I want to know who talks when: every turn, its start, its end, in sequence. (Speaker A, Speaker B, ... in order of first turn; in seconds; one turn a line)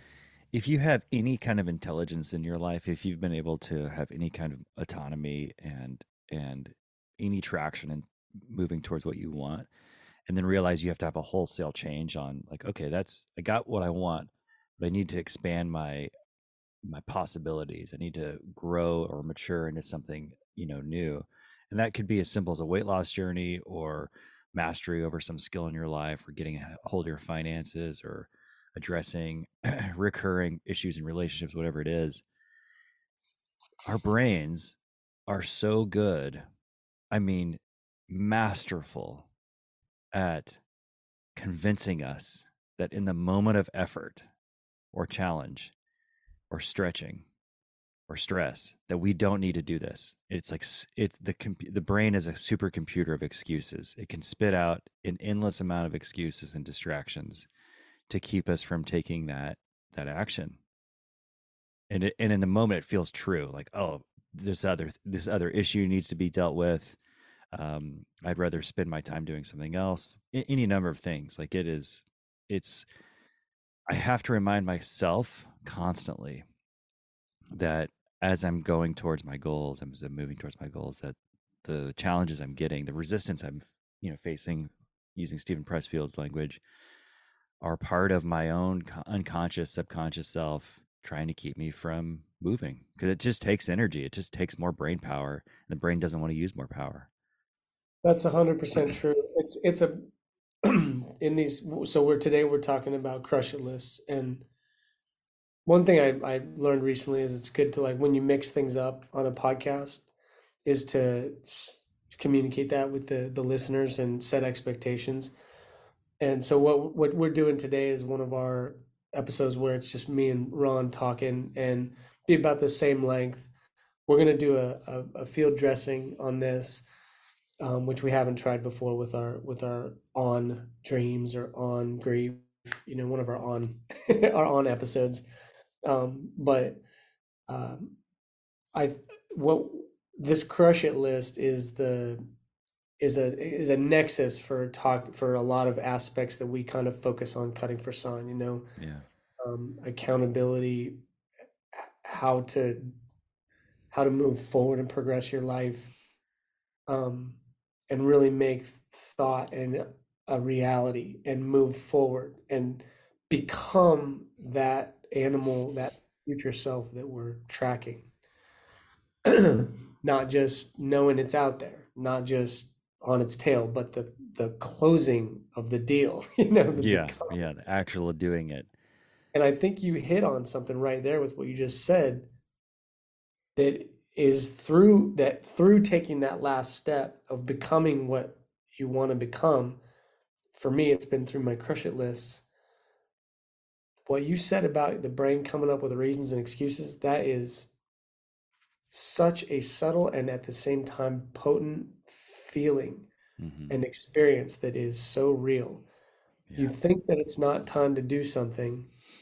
Speaker A: 0.5-9.7
Speaker A: 10.3-16.1
Speaker A: 16.8-32.2
Speaker A: 33.9-36.4
Speaker A: 37.1-39.3
Speaker A: 40.1-40.6
Speaker A: 41.4-44.2
Speaker A: 44.9-45.7
Speaker A: 46.5-47.2
Speaker A: 48.1-57.5
Speaker A: 58.1-60.6
Speaker A: 61.9-67.0
Speaker A: 67.5-72.8
Speaker A: 73.9-76.5
Speaker A: 77.5-86.6
Speaker A: 87.6-97.1
Speaker B: 98.0-100.0
Speaker B: 100.6-104.5
Speaker B: 105.7-110.0
Speaker B: 110.6-115.3
Speaker B: 116.2-123.5
Speaker B: 124.1-126.8
Speaker B: 127.6-135.2
Speaker B: 135.9-136.8
Speaker B: 137.5-137.9
Speaker B: 138.7-142.2
Speaker B: 143.0-148.7
Speaker A: 148.8-149.0
Speaker B: 149.4-151.0
Speaker B: 151.8-152.9
Speaker B: 153.9-155.9
Speaker B: 156.9-157.4
Speaker B: 157.9-168.1
Speaker B: 169.2-177.4
Speaker A: 176.8-178.7
Speaker B: 179.3-182.3
Speaker B: 183.6-189.8
Speaker B: 190.5-192.4
Speaker B: 194.1-197.7
Speaker B: 198.9-203.1
Speaker A: 203.4-203.7
Speaker B: 203.7-205.8
Speaker A: 206.5-206.7
Speaker B: 206.6-208.9